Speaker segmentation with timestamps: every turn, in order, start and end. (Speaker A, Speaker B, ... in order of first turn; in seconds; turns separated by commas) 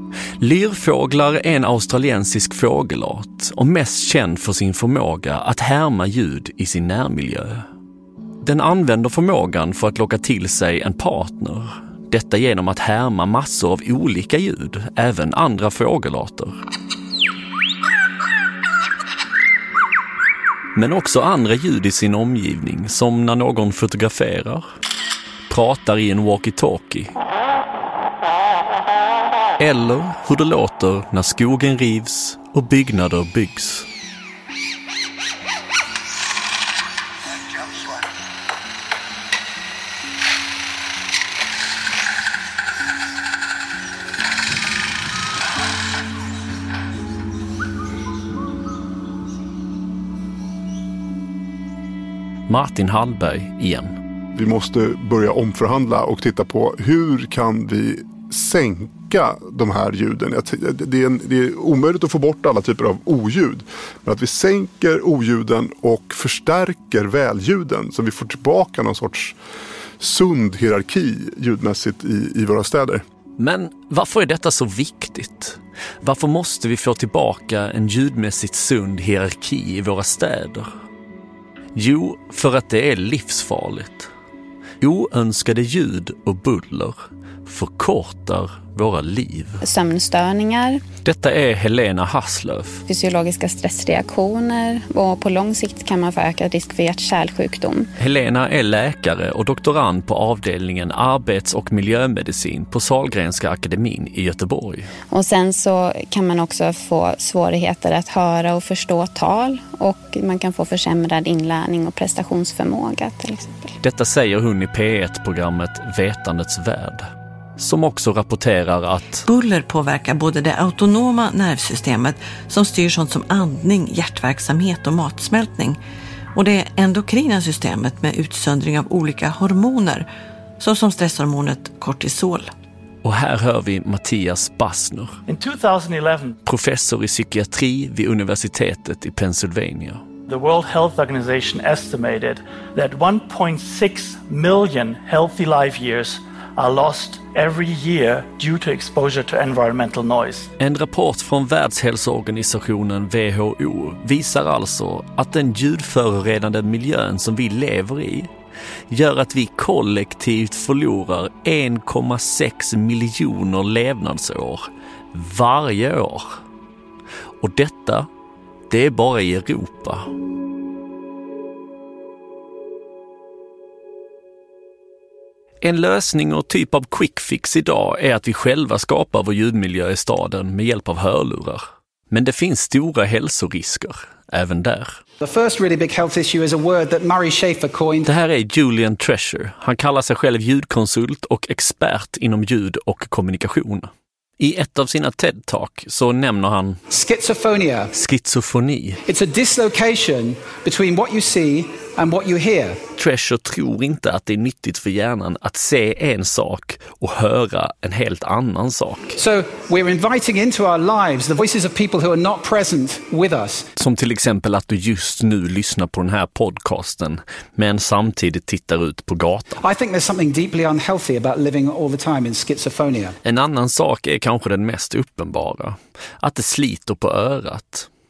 Speaker A: 0.4-7.7, Speaker A: 8.4-16.6, Speaker A: 20.8-24.7, Speaker A: 25.5-27.1, Speaker A: 29.6-33.9, Speaker A: 52.5-54.0, Speaker B: 54.3-69.4, Speaker B: 70.0-73.0, Speaker A: 73.4-80.7, Speaker A: 81.8-84.1, Speaker A: 84.8-89.6, Speaker C: 89.6-90.8, Speaker A: 91.0-92.8, Speaker C: 92.9-97.9, Speaker A: 98.0-104.9, Speaker C: 105.1-113.8, Speaker A: 113.8-119.3, Speaker D: 119.2-125.8, Speaker D: 126.3-130.1, Speaker D: 130.6-132.5, Speaker A: 133.0-135.2, Speaker E: 135.3-136.4, Speaker A: 136.4-140.0, Speaker E: 140.3-150.5, Speaker A: 150.6-158.3, Speaker A: 158.9-166.4, Speaker A: 167.4-168.1, Speaker A: 168.7-170.1, Speaker A: 175.6-185.0, Speaker F: 185.2-188.1, Speaker A: 188.1-196.8, Speaker F: 196.9-197.9, Speaker A: 197.9-199.0, Speaker F: 199.1-202.8, Speaker A: 203.0-209.2, Speaker F: 209.2-213.7, Speaker A: 213.8-219.6, Speaker F: 219.6-223.2, Speaker A: 223.2-227.9